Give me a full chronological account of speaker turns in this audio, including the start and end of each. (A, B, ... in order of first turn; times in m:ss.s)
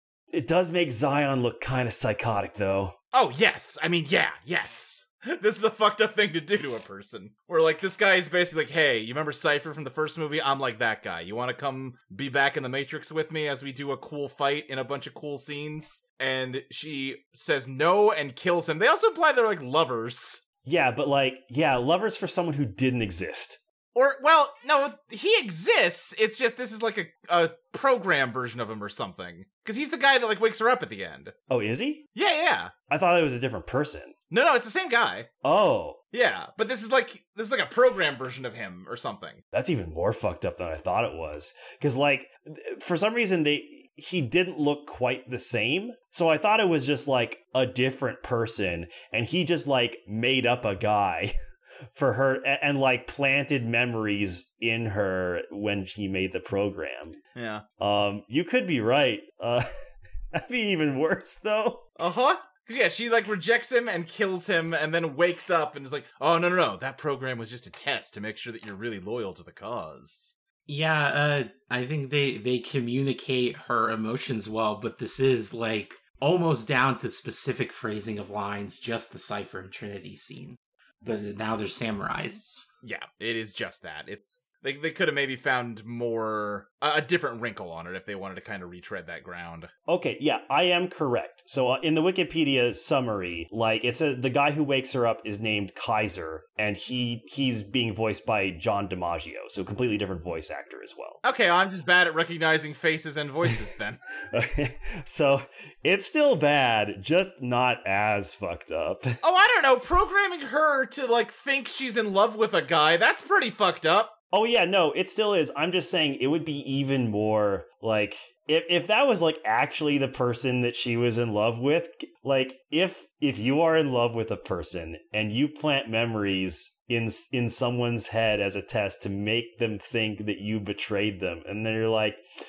0:00.3-0:03.0 A
0:03.1-0:20.4 B
0:20.6-0:23.6 A
0:24.0-0:31.3 B
0:31.5-0:32.0 A
0:32.2-0:32.7 B
0:32.9-0:34.2 A
0:34.3-0:35.3 B
0:35.4-0:36.0 A
0:36.1-0:39.4 B
0:39.5-0:51.3 A
0:51.9-0:57.2 A
0:57.4-0:57.6 B
0:57.8-0:59.6 A
1:00.3-1:01.8 A
1:02.0-1:10.3 B
1:10.7-1:22.7 C
1:22.8-1:29.7 B
1:29.9-1:41.2 A
1:41.2-1:44.0 B
1:44.3-1:49.2 A
1:49.2-1:54.1 B
1:54.3-2:12.2 A